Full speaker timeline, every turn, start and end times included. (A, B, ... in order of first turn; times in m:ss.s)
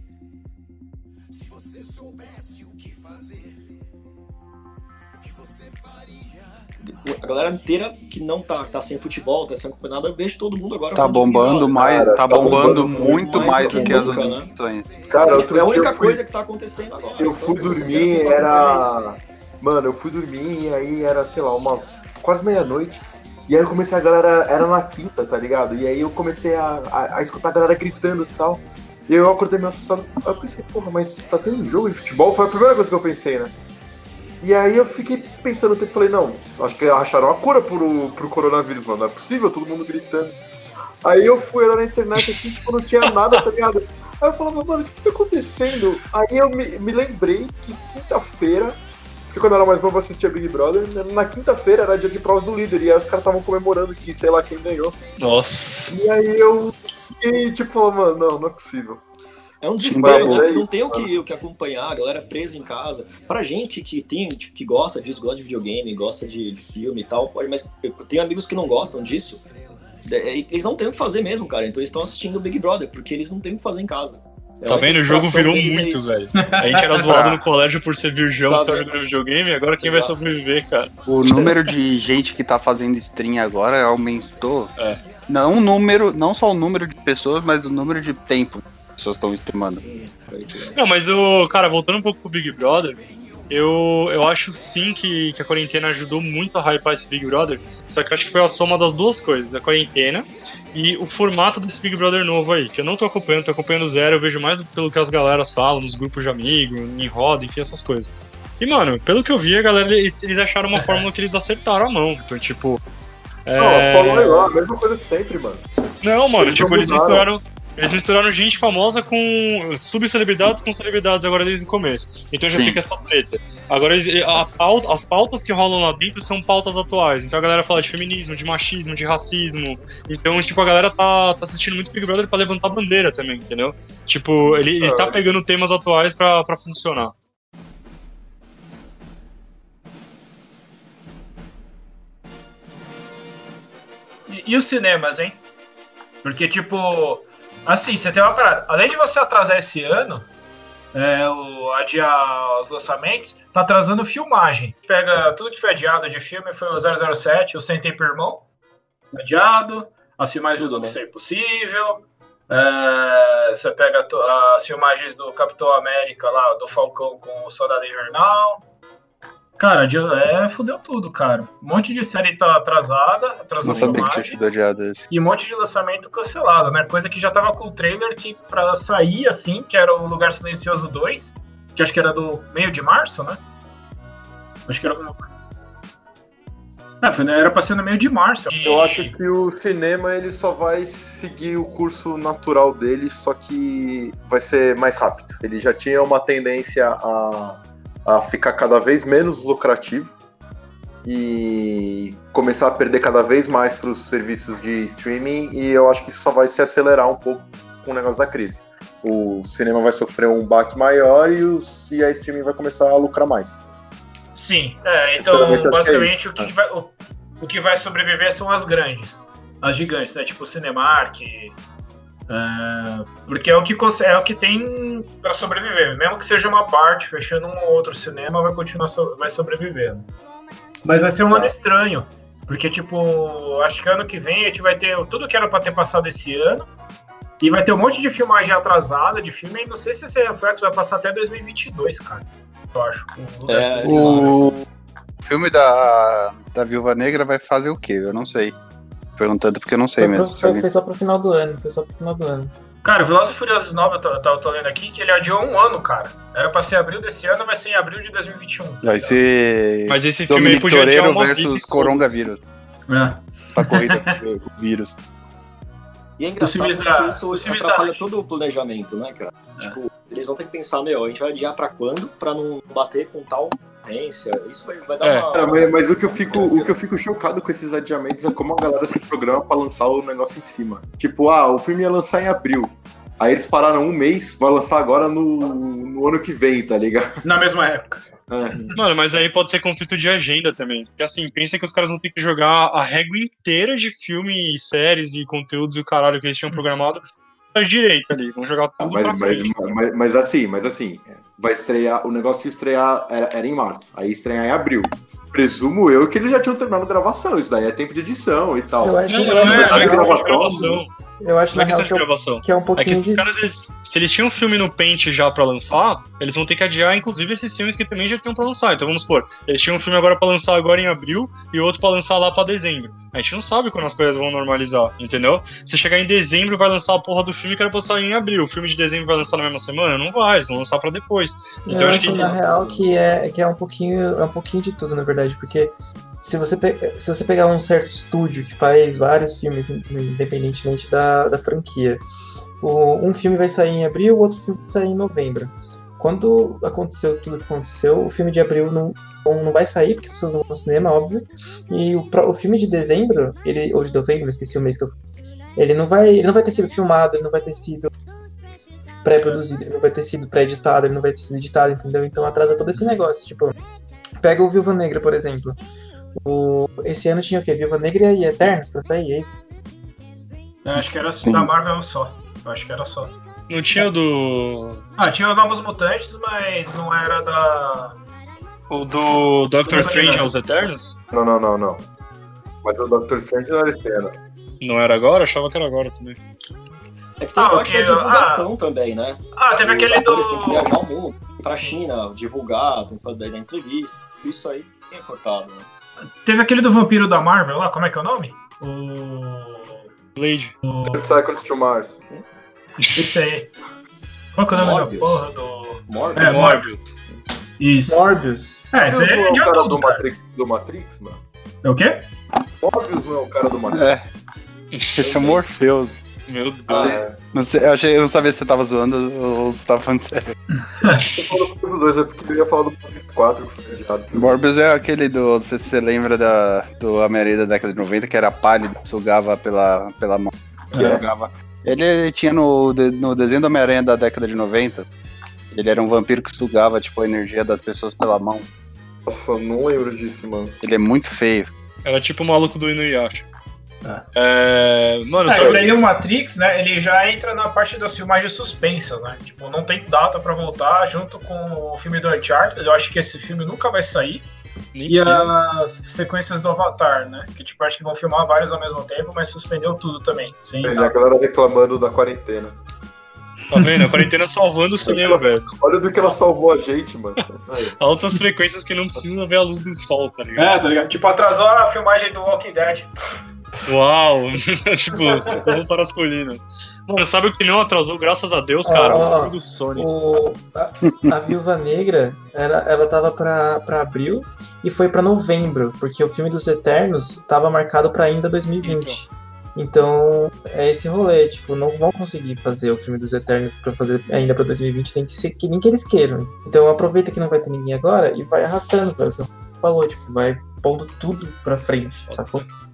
0:06.8-0:14.5 A
0:10.9-0:14.9 B
0:11.8-0:14.1 C
0:15.1-0:16.2 C
0:15.2-0:19.0 A
0:17.2-0:33.5 C
0:34.4-0:40.4 C
0:41.0-0:55.0 C
0:55.2-0:55.9 D
0:55.9-0:59.0 C
0:59.6-1:09.4 A
0:59.8-1:00.5 B
1:00.0-1:01.1 C
1:10.0-1:16.1 A
1:14.6-1:20.9 D
1:16.3-1:17.0 E
1:17.0-1:17.4 B
1:18.4-1:18.9 A
1:19.8-1:20.1 A
1:21.0-1:24.7 B
1:21.2-1:21.6 A
1:25.3-1:29.8 B
1:29.8-1:30.8 A
1:30.7-1:52.8 D
1:50.8-1:51.0 E
1:53.4-1:54.5 D
1:53.6-1:55.6 C
1:56.0-2:17.1 D
1:56.4-1:57.3 C
2:02.5-2:02.8 B
2:14.4-2:15.2 C
2:24.3-2:25.4 E
2:26.2-2:30.3 E
2:30.9-2:38.4 E
2:39.1-2:48.6 E
2:40.6-2:41.0 A
2:49.6-2:54.4 E
2:53.6-2:55.0 B
2:55.1-3:03.4 E
3:04.7-3:05.4 E
3:07.0-3:09.1 E
3:08.6-3:20.1 C
3:21.0-3:33.6 C
3:34.3-3:41.5 E
3:35.2-3:36.5 C
3:42.3-3:50.1 E
3:50.8-3:56.7 E
3:57.4-4:04.4 E
4:03.4-4:04.6 A
4:03.8-4:04.6 B
4:05.2-4:08.6 B
4:09.2-4:10.6 B
4:10.0-4:12.5 F
4:12.8-4:19.2 E
4:18.8-4:22.4 B
4:19.9-4:22.2 D
4:22.9-4:24.2 E
4:23.5-4:25.0 B
4:26.2-4:36.7 A
4:26.4-4:28.0 E
4:35.0-4:35.3 D
4:35.3-4:47.1 C
4:47.2-4:48.0 E
4:48.3-4:48.6 C
4:48.7-4:59.5 D
4:58.8-5:10.8 C
5:08.8-5:13.2 F
5:09.1-5:10.9 D
5:11.5-5:32.4 D
5:31.6-5:42.0 F
5:32.1-5:32.8 A
5:42.6-5:54.9 F
5:55.6-5:57.9 F
5:59.0-6:03.5 F
6:04.2-6:05.6 F
6:06.2-6:09.3 F
6:10.6-6:13.1 E
6:10.7-6:11.5 B
6:13.5-6:14.8 D
6:15.0-6:18.0 E
6:18.7-6:20.9 D
6:19.7-6:20.3 E
6:21.1-6:21.8 C
6:22.6-6:24.1 C
6:24.6-6:26.2 D
6:27.2-6:35.7 A
6:27.4-6:28.5 E
6:29.3-6:30.7 E
6:36.2-6:39.9 E
6:40.2-6:40.6 D
6:40.6-6:41.2 E
6:40.8-6:42.0 C
6:42.8-6:43.1 D
6:42.9-6:43.5 E
6:44.3-6:46.7 E
6:44.5-6:45.2 A
6:45.9-6:46.4 A
6:46.1-6:46.9 D
6:47.6-6:48.0 E
6:47.9-6:48.7 F
6:48.7-6:50.0 E
6:48.8-6:51.2 C
6:51.6-6:52.0 E
6:52.6-6:53.9 C
6:53.7-6:54.0 B
6:54.9-6:56.0 B
6:55.0-6:55.4 A
6:56.3-6:57.0 D
6:56.7-6:57.2 C
6:56.8-7:00.4 B
7:00.8-7:01.1 E
7:01.1-7:04.3 C
7:04.1-7:14.9 B
7:10.7-7:11.0 C
7:15.5-7:18.4 B
7:19.0-7:20.5 C
7:20.6-7:21.5 B
7:21.8-7:23.3 D
7:24.1-7:25.8 D
7:25.2-7:34.2 E
7:34.7-7:35.3 D
7:34.9-7:41.0 E
7:40.6-7:42.6 C
7:43.5-7:45.5 D
7:43.6-7:44.0 E
7:44.8-7:47.4 C
7:47.8-7:50.6 D
7:50.4-7:52.9 E
7:53.6-8:00.0 D
7:55.0-7:55.4 E
7:58.6-8:22.4 F
8:08.6-8:09.0 D
8:22.0-8:22.4 D